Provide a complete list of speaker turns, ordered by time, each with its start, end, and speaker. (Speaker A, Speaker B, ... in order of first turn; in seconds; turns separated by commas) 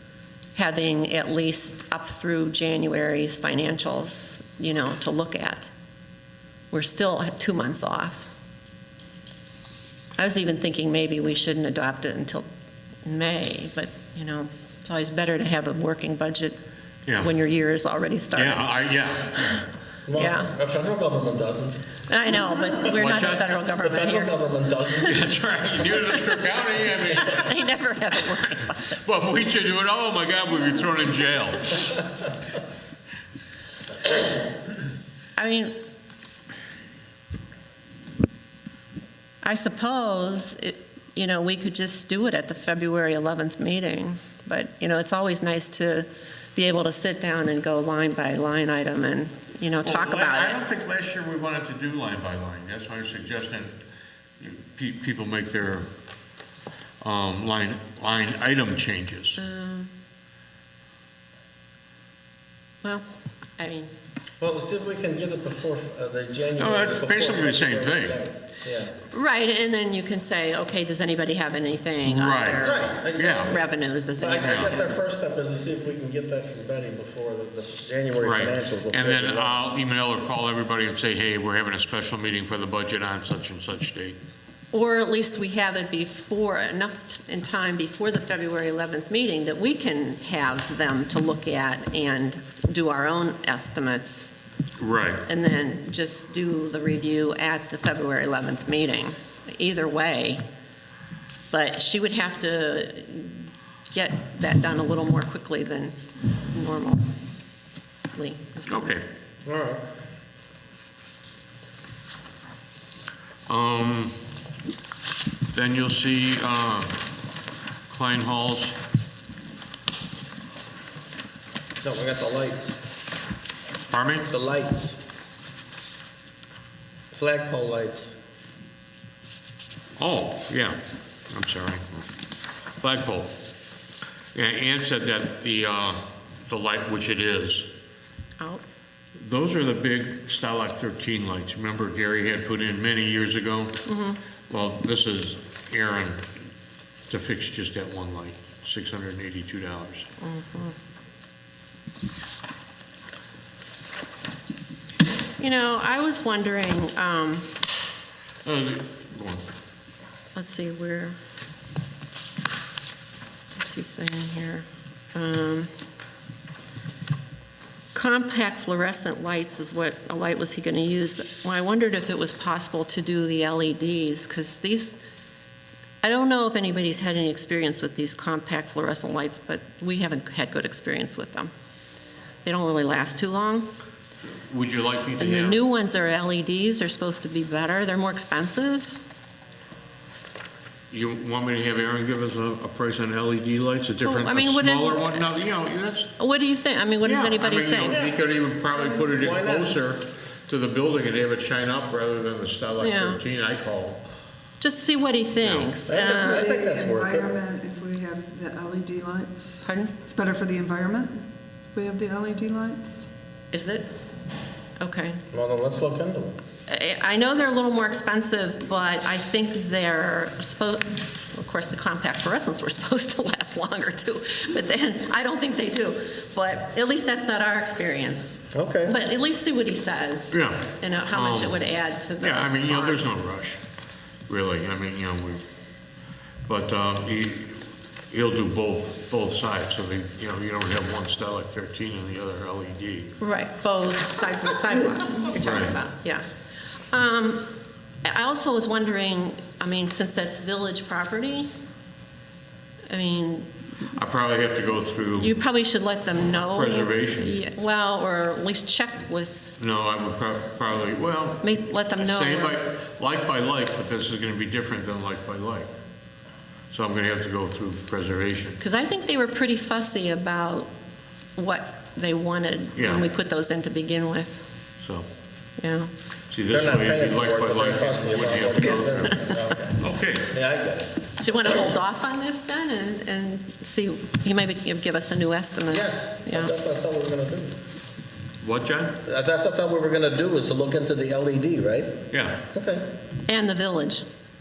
Speaker A: 0.5-5.7, Speaker A: 6.7-8.3, Speaker A: 10.2-12.4, Speaker A: 13.0-16.6, Speaker B: 17.1-17.3, Speaker A: 17.1-18.7, Speaker B: 18.3-19.7, Speaker C: 20.1-21.9, Speaker A: 20.1-20.5, Speaker A: 22.1-24.4, Speaker B: 22.8-23.5, Speaker C: 23.7-25.2, Speaker B: 25.0-27.7, Speaker A: 27.1-29.0, Speaker B: 29.0-32.0, Speaker A: 35.4-35.8, Speaker A: 39.4-50.6, Speaker B: 49.8-53.8, Speaker B: 54.4-55.9, Speaker B: 57.0-59.4, Speaker A: 59.4-59.9, Speaker A: 63.6-63.9, Speaker C: 64.4-69.0, Speaker B: 66.6-68.2, Speaker A: 69.1-74.9, Speaker B: 72.1-73.6, Speaker C: 72.6-73.7, Speaker C: 74.2-79.5, Speaker B: 74.4-74.8, Speaker B: 78.2-84.2, Speaker A: 84.7-94.3, Speaker B: 94.8-95.2, Speaker A: 95.2-100.4, Speaker A: 101.5-107.1, Speaker A: 108.1-109.0, Speaker B: 108.7-109.0, Speaker C: 109.4-109.8, Speaker B: 113.5-114.2, Speaker B: 115.5-117.0, Speaker B: 117.9-118.8, Speaker C: 121.8-122.8, Speaker B: 123.9-124.3, Speaker C: 124.3-125.0, Speaker C: 127.1-128.2, Speaker B: 130.0-132.0, Speaker B: 132.8-133.3, Speaker B: 134.3-137.7, Speaker B: 139.2-143.8, Speaker A: 143.8-144.2, Speaker B: 144.5-146.3, Speaker B: 147.1-150.1, Speaker A: 150.2-150.7, Speaker A: 155.4-157.5, Speaker B: 158.4-159.5, Speaker A: 160.3-161.2, Speaker A: 163.5-165.7, Speaker A: 167.9-175.0, Speaker A: 176.0-181.5, Speaker A: 182.4-183.7, Speaker B: 184.5-185.6, Speaker A: 185.2-189.0, Speaker B: 190.9-196.1, Speaker A: 194.0-195.3, Speaker A: 196.2-198.1, Speaker B: 197.0-204.0, Speaker C: 199.0-199.8, Speaker A: 202.8-203.2, Speaker A: 204.6-206.5, Speaker B: 205.4-205.8, Speaker C: 205.9-207.3, Speaker D: 206.3-213.1, Speaker A: 209.6-209.9, Speaker A: 213.5-213.9, Speaker A: 214.8-215.2, Speaker C: 215.3-216.4, Speaker A: 216.7-233.1, Speaker C: 228.5-229.0, Speaker B: 230.3-231.6, Speaker B: 232.2-233.6, Speaker B: 234.3-235.4, Speaker B: 236.5-243.1, Speaker A: 243.2-246.3, Speaker B: 245.4-245.8, Speaker A: 246.9-247.5, Speaker A: 248.0-251.5, Speaker A: 252.9-253.5, Speaker B: 253.9-255.3, Speaker A: 255.2-259.6, Speaker B: 256.4-257.4, Speaker B: 259.6-265.7, Speaker A: 261.4-262.6, Speaker B: 266.7-268.6, Speaker A: 268.6-270.7, Speaker A: 271.4-274.5, Speaker B: 272.8-273.1, Speaker B: 274.8-275.1, Speaker A: 275.6-275.9, Speaker B: 276.3-279.2, Speaker C: 276.5-280.9, Speaker B: 279.8-280.3, Speaker A: 281.2-286.5, Speaker C: 285.7-287.6, Speaker B: 288.4-289.0, Speaker C: 289.0-292.9, Speaker B: 292.1-292.4, Speaker A: 293.2-294.1